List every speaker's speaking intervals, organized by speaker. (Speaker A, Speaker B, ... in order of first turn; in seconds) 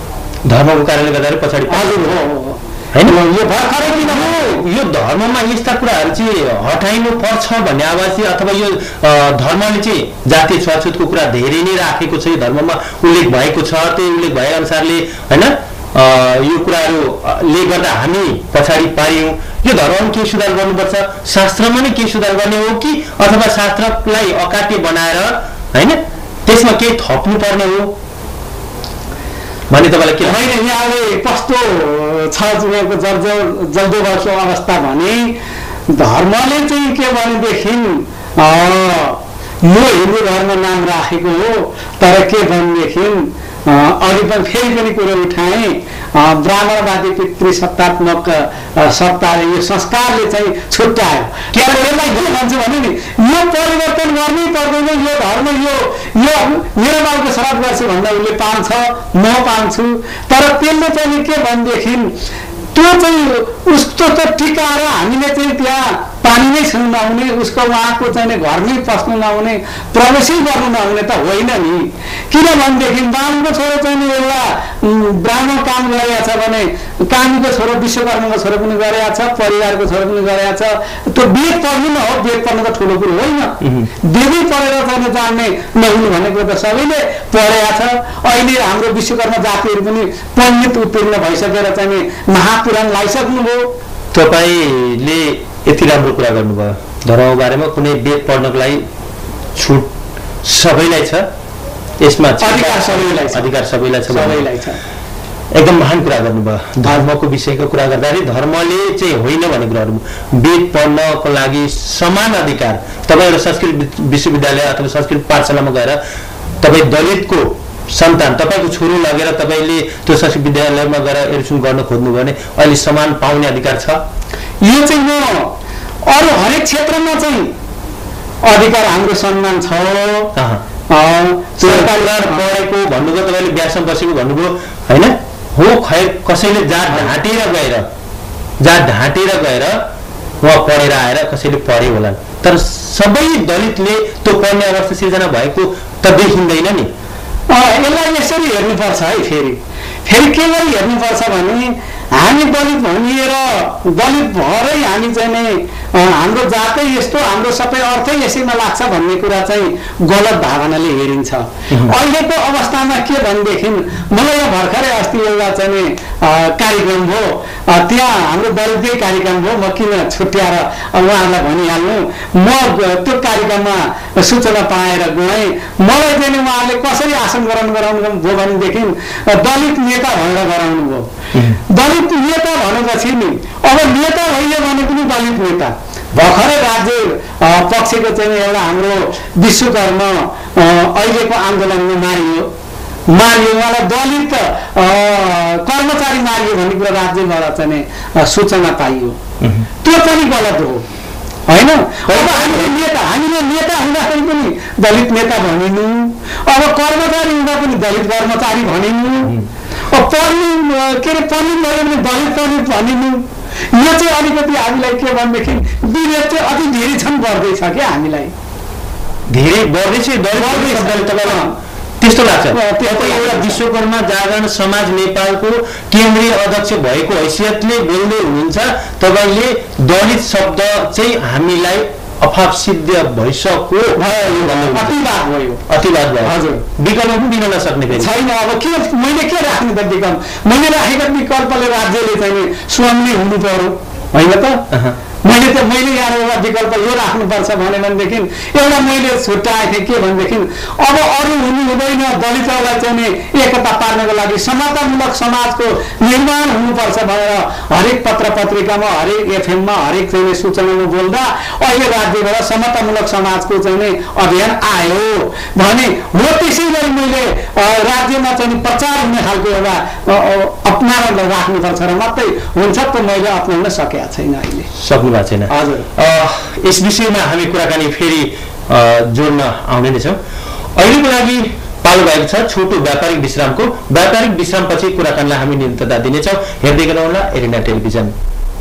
Speaker A: 0.5-2.2, 2.9-27.9, 29.7-30.4, 51.5-52.2, 83.6-83.9, 94.1-98.8, 99.5-99.9, 100.4-101.3, 102.0-104.5, 105.5-116.0, 116.6-124.0, 130.4-130.6, 131.6-137.9, 138.6-139.8, 140.4-146.9, 161.7-162.0, 181.3-181.6, 199.4-199.7, 202.1-202.7, 219.3-235.0, 235.7-238.1, 244.7-245.0, 274.7-280.2, 280.8-288.1
Speaker B: 1.7-4.6, 30.2-35.4, 35.9-62.1, 62.7-93.7, 102.4-103.5, 104.1-104.8, 124.6-125.5, 126.1-127.5, 128.4-130.3, 130.9-132.5, 147.5-181.1, 181.7-192.5, 193.1-199.2, 199.8-200.9, 201.5-209.3, 209.9-218.3, 220.3-221.5, 222.5-223.6, 233.9-235.7, 236.2-236.6, 237.9-244.7, 245.2-274.7, 275.5-275.9